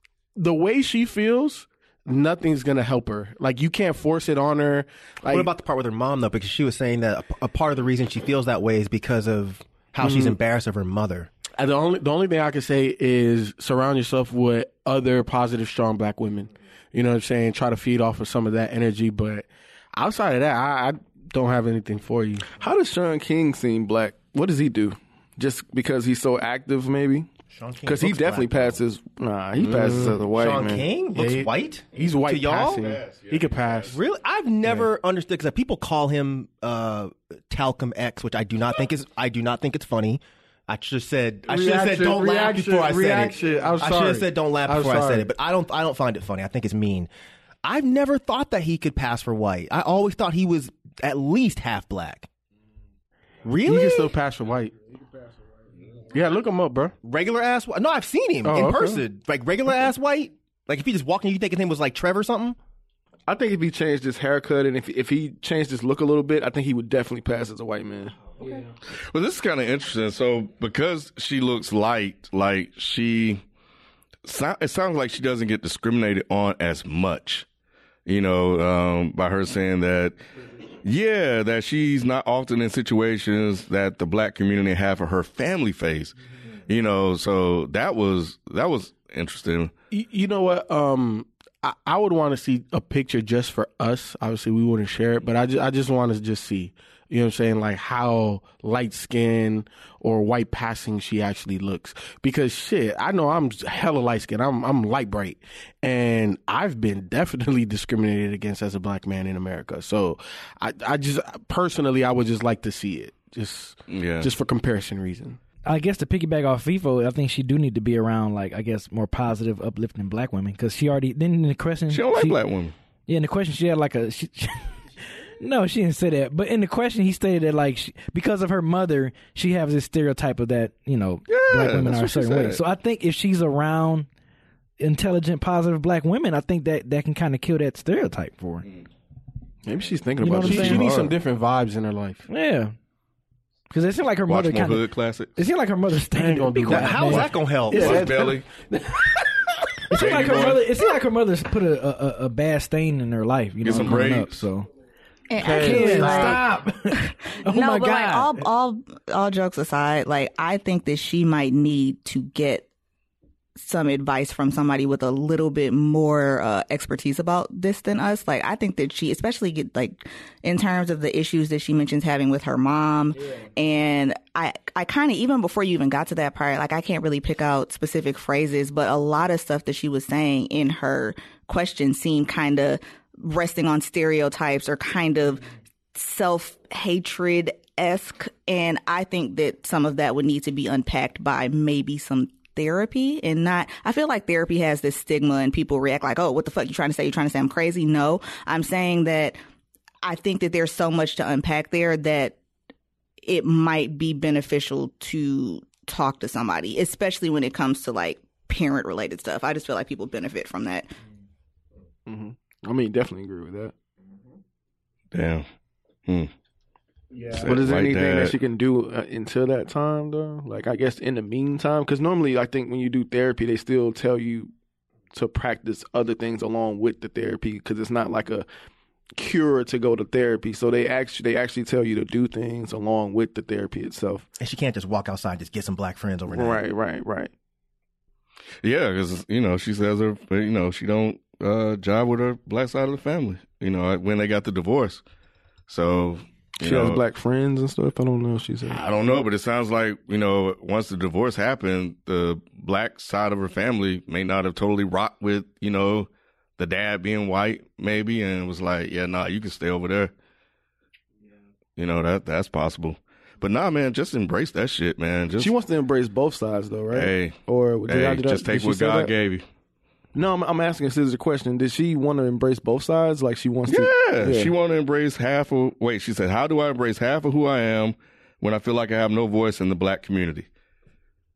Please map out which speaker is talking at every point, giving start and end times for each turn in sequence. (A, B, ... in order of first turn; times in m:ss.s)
0:00.4-0:05.5 A
0:05.3-0:11.3 B
0:10.0-0:10.4 A
0:11.6-0:22.5 A
0:22.6-0:27.3 C
0:27.5-0:28.8 B
0:27.8-0:30.9 C
0:29.6-0:30.2 A
0:30.3-0:33.0 B
0:31.1-0:34.0 A
0:32.8-0:33.9 D
0:33.9-0:47.1 B
0:41.5-0:45.3 A
0:47.6-0:52.3 B
0:53.4-0:54.1 B
0:53.6-0:54.7 A
0:56.1-0:56.9 A
0:57.0-1:02.6 B
0:58.4-0:59.0 A
1:03.3-1:08.2 C
1:09.1-1:13.4 D
1:14.2-1:17.5 D
1:18.1-1:20.2 D
1:20.8-1:26.1 D
1:26.7-1:29.7 D
1:29.9-1:55.4 A
1:53.9-1:54.3 D
1:55.7-2:02.4 E
2:01.9-2:02.7 D
2:03.1-2:04.8 E
2:05.4-2:14.1 E
2:11.3-2:12.6 D
2:14.8-2:18.6 E
2:19.6-2:21.1 C
2:20.2-2:20.9 E
2:20.4-2:22.2 A
2:22.3-2:22.8 E
2:23.7-2:27.3 E
2:24.3-2:25.3 D
2:26.1-2:29.0 A
2:26.7-2:28.1 B
2:27.7-2:28.5 D
2:29.9-2:34.7 E
2:30.0-2:30.6 D
2:33.6-2:34.4 D
2:35.3-2:42.7 F
2:35.4-2:36.5 A
2:35.4-2:38.5 E
2:43.6-3:19.4 F
3:20.0-3:22.4 F
3:23.2-3:30.9 F
3:32.1-3:33.7 C
3:35.1-3:35.5 D
3:37.3-3:44.5 C
3:37.3-3:38.4 D
3:45.1-3:48.5 C
3:49.2-3:54.3 C
3:54.4-3:56.6 B
3:56.3-3:57.3 C
3:58.6-4:05.0 D
4:05.7-4:07.0 D
4:06.6-4:08.8 C
4:08.7-4:20.1 D
4:21.8-4:25.5 D
4:25.4-4:29.1 C
4:26.9-4:29.4 D
4:30.2-4:34.5 C
4:33.7-4:40.5 D